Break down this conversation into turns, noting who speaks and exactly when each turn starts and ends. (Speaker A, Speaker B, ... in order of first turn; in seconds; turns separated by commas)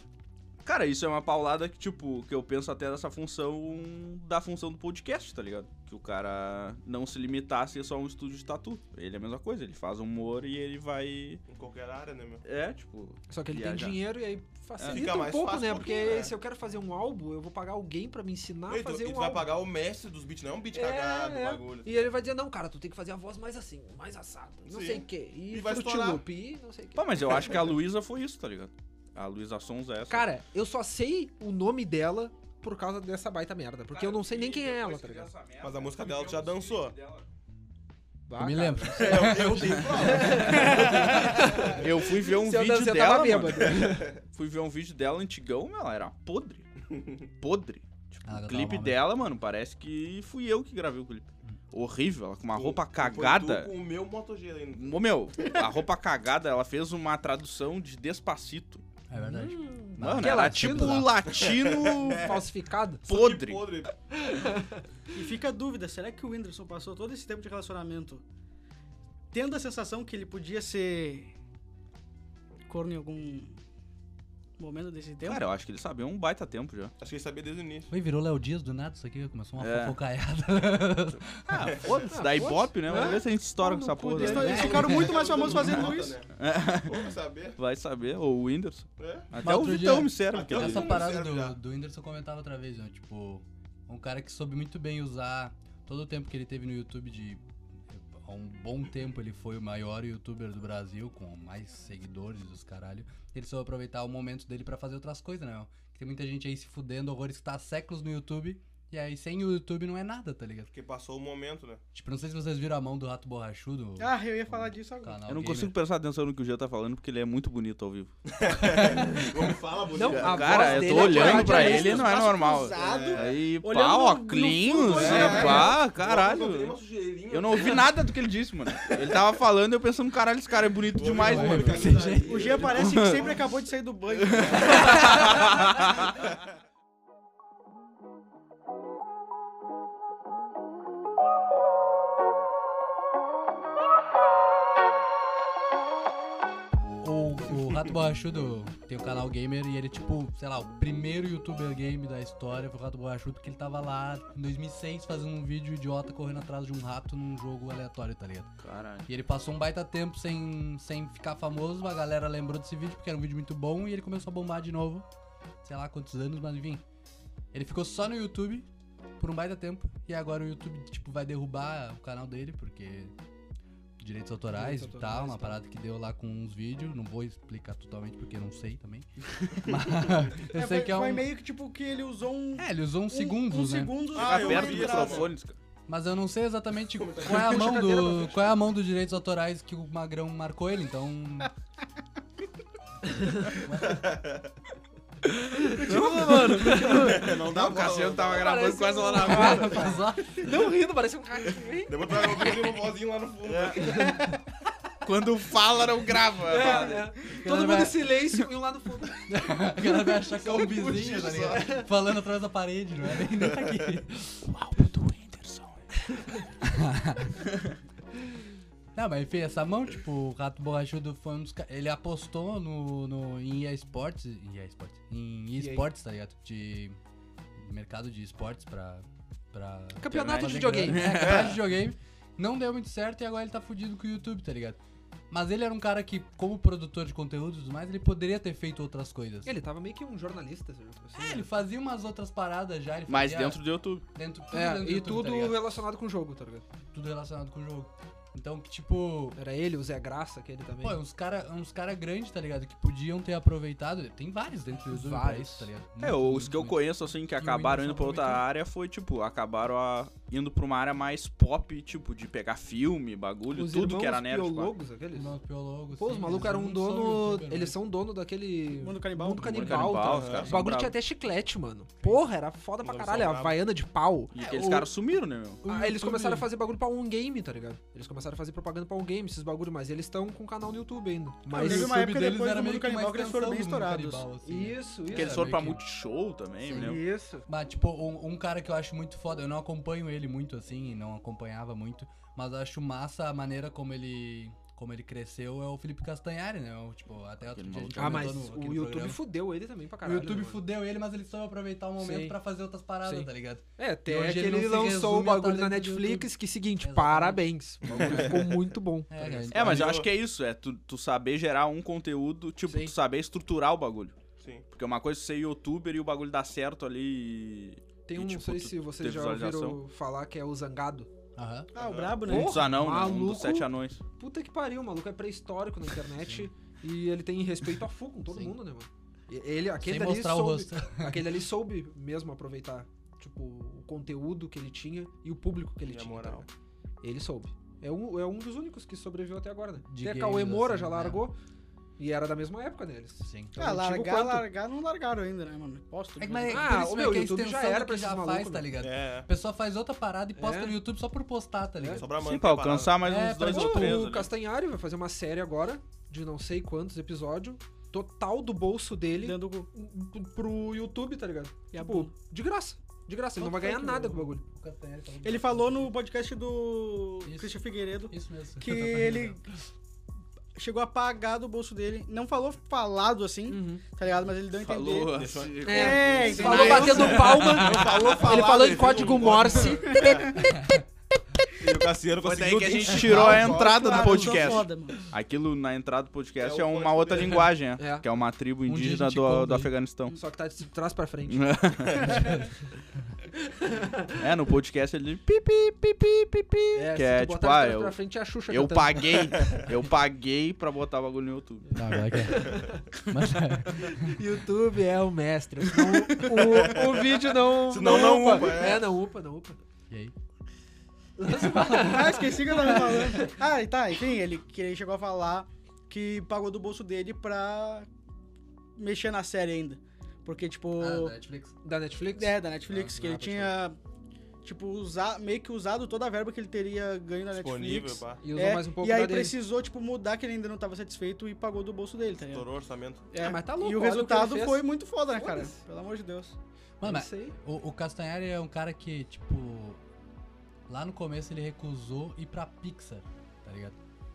Speaker A: 0.6-11.4, Speaker B: 11.5-12.4, Speaker A: 12.4-14.0, Speaker C: 13.3-19.5, Speaker A: 14.8-15.1, Speaker B: 14.8-16.4, Speaker B: 18.7-22.1, Speaker C: 20.7-27.8, Speaker B: 24.6-26.2, Speaker A: 26.9-30.3, Speaker C: 30.1-35.3, Speaker A: 33.9-37.3, Speaker B: 35.6-37.0, Speaker C: 38.3-44.1, Speaker D: 38.4-40.8, Speaker B: 38.9-41.8, Speaker A: 40.4-46.7, Speaker B: 43.7-44.2, Speaker A: 47.4-53.7, Speaker D: 48.3-49.1, Speaker B: 52.5-55.7, Speaker A: 54.8-58.8, Speaker D: 59.1-61.1, Speaker C: 59.1-61.1, Speaker A: 60.0-62.4, Speaker B: 61.3-62.4, Speaker C: 62.1-63.1, Speaker A: 63.1-63.8, Speaker B: 63.1-63.9, Speaker C: 64.1-64.8, Speaker E: 65.1-68.2, Speaker E: 69.3-71.3, Speaker E: 72.7-73.6, Speaker E: 74.6-75.5, Speaker A: 75.2-76.9, Speaker B: 77.0-77.9, Speaker D: 77.9-81.5, Speaker A: 79.6-80.0, Speaker A: 81.5-84.7, Speaker B: 81.8-82.0, Speaker C: 82.1-85.1, Speaker E: 84.2-86.2, Speaker D: 84.4-85.8, Speaker B: 84.6-87.6, Speaker A: 86.4-91.1, Speaker B: 89.0-89.3, Speaker D: 89.4-110.7, Speaker B: 90.3-91.6, Speaker B: 110.7-111.8, Speaker D: 111.9-115.8, Speaker E: 114.0-115.2, Speaker A: 115.3-118.2, Speaker B: 118.3-123.4, Speaker D: 118.6-119.3, Speaker C: 119.9-122.1, Speaker A: 120.0-126.8, Speaker E: 120.9-125.8, Speaker B: 124.8-128.0, Speaker D: 125.2-125.5, Speaker A: 127.3-132.1, Speaker B: 130.9-133.4, Speaker D: 131.2-132.7, Speaker E: 132.3-135.6, Speaker A: 132.7-133.3, Speaker A: 134.2-136.1, Speaker B: 134.4-135.1, Speaker D: 147.0-158.5, Speaker A: 158.6-159.1, Speaker D: 159.1-165.1, Speaker D: 165.6-166.8, Speaker D: 167.5-168.7, Speaker D: 169.2-173.1, Speaker D: 174.0-181.3, Speaker C: 174.5-175.6, Speaker E: 180.5-185.3, Speaker D: 182.6-184.0, Speaker B: 184.1-185.3, Speaker A: 184.2-185.6, Speaker D: 185.9-191.5, Speaker B: 187.0-187.5, Speaker C: 187.2-188.5, Speaker D: 193.3-194.1, Speaker B: 193.8-194.4, Speaker C: 195.6-197.3, Speaker A: 195.8-199.8, Speaker B: 196.8-198.6, Speaker C: 198.3-202.6, Speaker D: 199.2-200.5, Speaker B: 201.9-204.1, Speaker C: 203.8-204.2, Speaker A: 205.0-207.1, Speaker C: 206.5-209.2, Speaker D: 207.3-208.2, Speaker D: 209.3-215.6, Speaker B: 210.4-211.5, Speaker C: 211.4-211.9, Speaker D: 216.6-217.5, Speaker D: 218.9-227.0, Speaker C: 225.6-225.9, Speaker D: 227.6-234.8, Speaker C: 230.0-231.4, Speaker A: 230.1-231.6, Speaker D: 235.3-239.5, Speaker C: 239.4-241.5, Speaker D: 241.2-245.6, Speaker A: 243.1-244.1, Speaker C: 244.5-246.7, Speaker D: 246.9-249.4, Speaker C: 249.4-251.0, Speaker D: 250.8-258.5, Speaker C: 254.9-255.7, Speaker A: 256.0-264.8, Speaker C: 263.5-265.3, Speaker D: 265.1-267.8, Speaker C: 266.0-274.3, Speaker E: 268.8-270.1, Speaker A: 269.4-271.0, Speaker B: 270.1-270.5, Speaker B: 272.8-273.6, Speaker A: 274.3-275.6, Speaker D: 274.4-274.9, Speaker D: 275.6-276.5, Speaker C: 275.7-282.0, Speaker D: 281.5-285.8, Speaker E: 281.5-284.2, Speaker C: 284.4-285.6, Speaker A: 285.1-287.0, Speaker D: 286.7-299.2, Speaker C: 286.8-287.4, Speaker A: 297.4-298.3, Speaker C: 298.0-300.6, Speaker D: 300.0-307.5, Speaker C: 302.0-302.4, Speaker C: 303.1-309.7, Speaker B: 308.0-308.4, Speaker D: 309.1-310.0, Speaker A: 309.5-314.2, Speaker B: 309.5-310.1, Speaker B: 314.4-314.6, Speaker A: 314.7-319.8, Speaker C: 318.1-321.1, Speaker D: 321.4-321.7, Speaker E: 321.7-322.7, Speaker B: 321.8-322.2, Speaker C: 322.3-336.5, Speaker A: 322.3-324.0, Speaker D: 329.8-331.2, Speaker B: 335.8-336.5, Speaker C: 337.0-341.4, Speaker D: 339.9-341.2, Speaker C: 342.0-344.5, Speaker D: 343.2-343.5, Speaker E: 343.6-346.7, Speaker D: 346.2-352.1, Speaker C: 346.5-348.6, Speaker B: 348.8-349.3, Speaker C: 350.4-350.8, Speaker C: 351.8-352.0, Speaker B: 352.0-353.0, Speaker A: 352.2-354.3, Speaker D: 353.0-354.0, Speaker C: 353.4-364.4, Speaker E: 359.2-359.7, Speaker E: 361.7-362.1, Speaker E: 363.4-364.0, Speaker D: 363.8-365.9, Speaker E: 365.2-369.4, Speaker D: 367.2-369.4, Speaker E: 370.6-377.3, Speaker C: 373.5-373.8, Speaker A: 374.6-378.6, Speaker B: 375.1-380.4, Speaker C: 375.6-380.5, Speaker D: 376.6-377.2, Speaker E: 379.6-380.5, Speaker D: 380.5-380.8, Speaker B: 381.6-384.6, Speaker A: 382.2-390.2, Speaker E: 382.9-385.0, Speaker B: 386.4-387.5, Speaker C: 387.8-388.0, Speaker D: 388.7-389.7, Speaker C: 390.1-392.2, Speaker A: 391.3-392.3, Speaker D: 392.0-392.5, Speaker C: 393.6-394.2, Speaker A: 394.2-401.9, Speaker C: 396.7-399.3, Speaker D: 401.7-404.2, Speaker C: 402.3-402.9, Speaker C: 403.7-409.6, Speaker B: 406.5-408.9, Speaker C: 411.2-413.3, Speaker D: 411.4-413.1, Speaker E: 411.7-417.9, Speaker E: 418.8-421.1, Speaker D: 420.8-421.6, Speaker C: 421.6-423.5, Speaker E: 422.1-423.8, Speaker E: 424.4-432.5, Speaker B: 427.3-428.2, Speaker C: 428.2-429.4, Speaker B: 432.2-433.1, Speaker E: 433.1-436.4, Speaker C: 433.2-435.6, Speaker D: 436.8-439.8, Speaker C: 436.8-437.4, Speaker D: 440.7-443.8